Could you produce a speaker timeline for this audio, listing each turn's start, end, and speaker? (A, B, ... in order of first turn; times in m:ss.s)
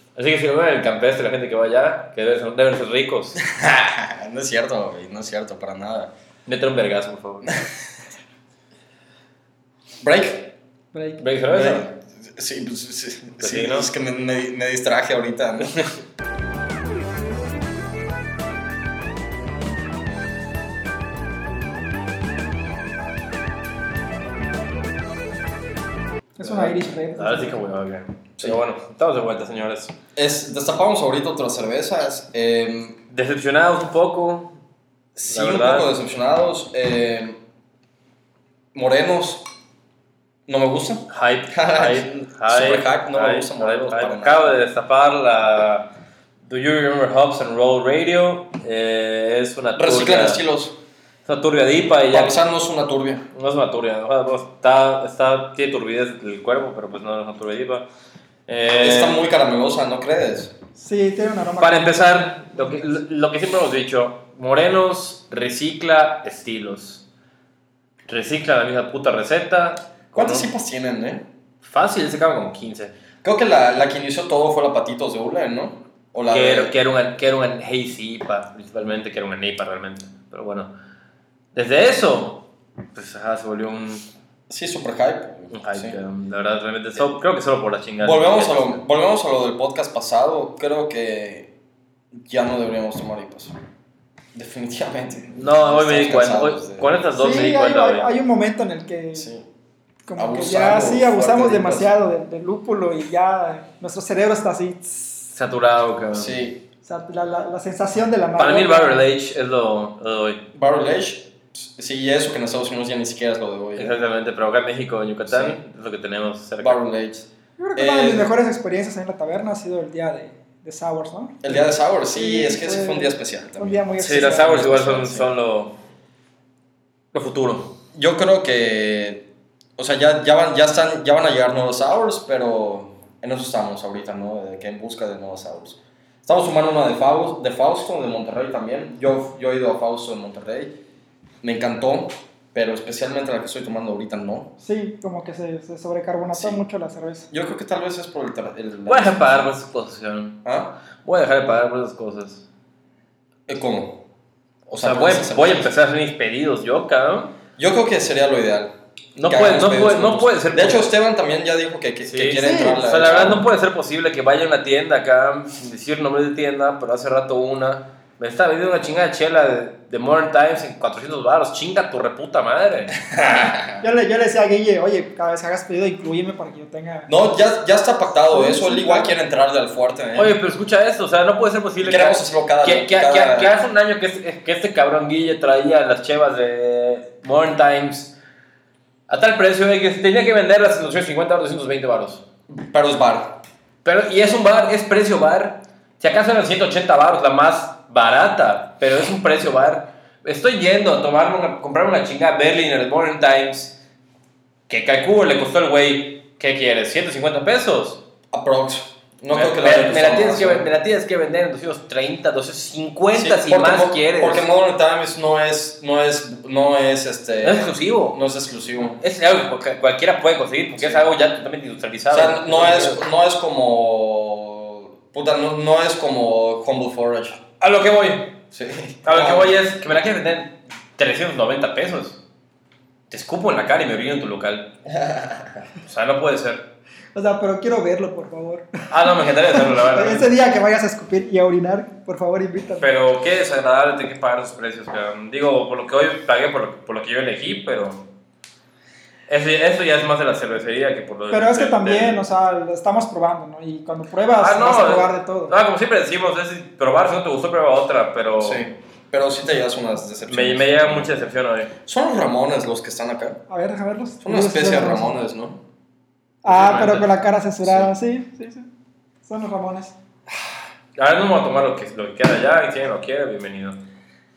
0:00.2-0:03.4 A
0:03.4-0:06.1 B
0:06.5-0:07.6 A
0:10.0-0:10.5 B
0:10.9-0:11.2 C
0:11.2-0:11.9 A
0:11.5-0:15.8 B
0:13.4-0:13.9 A
0:26.4-0:27.6 C
0:26.4-0:30.0 A
0:30.2-0:33.0 B
0:33.1-0:34.5 A
0:35.2-0:37.4 B
0:35.3-0:35.9 A
0:38.7-0:39.5 B
0:40.5-0:44.6 B
0:41.1-0:45.9 A
0:46.5-0:50.4 A
0:49.8-0:50.8 B
0:51.3-0:52.4 A
0:52.1-0:53.3 B
0:53.3-0:57.9 A
0:58.5-0:59.2 A
0:58.8-1:00.5 B
1:00.8-1:03.0 C
1:01.6-1:07.0 A
1:08.1-1:10.5 A
1:10.2-1:11.3 B
1:11.6-1:12.9 A
1:13.2-1:16.7 B
1:16.3-1:20.7 A
1:21.5-1:24.1 A
1:24.5-1:26.0 B
1:25.5-1:28.8 A
1:28.0-1:31.5 B
1:32.2-1:33.5 B
1:34.3-1:37.0 B
1:35.4-1:38.1 A
1:37.2-1:39.3 C
1:39.2-1:39.5 B
1:40.1-1:45.3 C
1:40.2-1:42.0 B
1:45.3-1:46.4 A
1:46.1-1:46.6 B
1:46.8-1:49.0 C
1:48.4-1:50.5 A
1:50.5-1:54.0 B
1:53.8-1:56.8 A
1:55.3-1:55.6 B
1:56.6-1:58.3 B
1:57.6-2:04.7 C
2:01.4-2:05.3 B
2:04.0-2:05.7 A
2:07.1-2:07.8 A
2:07.9-2:20.8 B
2:21.4-2:24.5 B
2:24.6-2:27.3 C
2:26.3-2:26.6 B
2:27.3-2:29.5 B
2:28.9-2:30.4 A
2:30.4-2:30.7 B
2:31.0-2:32.4 A
2:33.5-2:34.0 B
2:34.7-2:35.7 B
2:34.7-2:37.3 A
2:37.6-2:43.5 B
2:39.2-2:40.9 A
2:42.0-2:53.0 A
2:42.4-2:42.8 C
2:53.2-2:53.7 B
2:53.8-2:57.1 C
2:57.1-3:00.4 B
2:58.3-2:59.2 C
3:00.2-3:08.1 A
3:01.8-3:03.5 B
3:09.1-3:12.2 A
3:12.5-3:13.4 B
3:13.8-3:23.8 A
3:24.7-3:28.0 A
3:28.3-3:30.7 B
3:29.3-3:34.4 A
3:33.1-3:39.0 B
3:37.4-3:38.2 A
3:38.8-3:43.0 A
3:40.8-3:41.1 B
3:42.1-3:47.4 B
3:47.6-3:48.4 A
3:48.5-3:49.6 B
3:49.0-3:52.2 A
3:53.1-3:54.7 A
3:55.0-3:55.6 B
3:55.8-3:56.7 A
3:57.2-3:58.7 C
3:58.9-4:00.3 A
3:59.5-4:02.9 C
4:02.8-4:08.0 A
4:09.3-4:12.2 A
4:11.3-4:15.6 C
4:14.4-4:18.6 A
4:18.4-4:21.3 B
4:20.3-4:21.7 A
4:21.8-4:23.4 B
4:23.5-4:25.2 C
4:24.2-4:25.6 B
4:26.4-4:28.7 C
4:26.4-4:27.1 A
4:29.2-4:30.0 C
4:31.0-4:33.8 A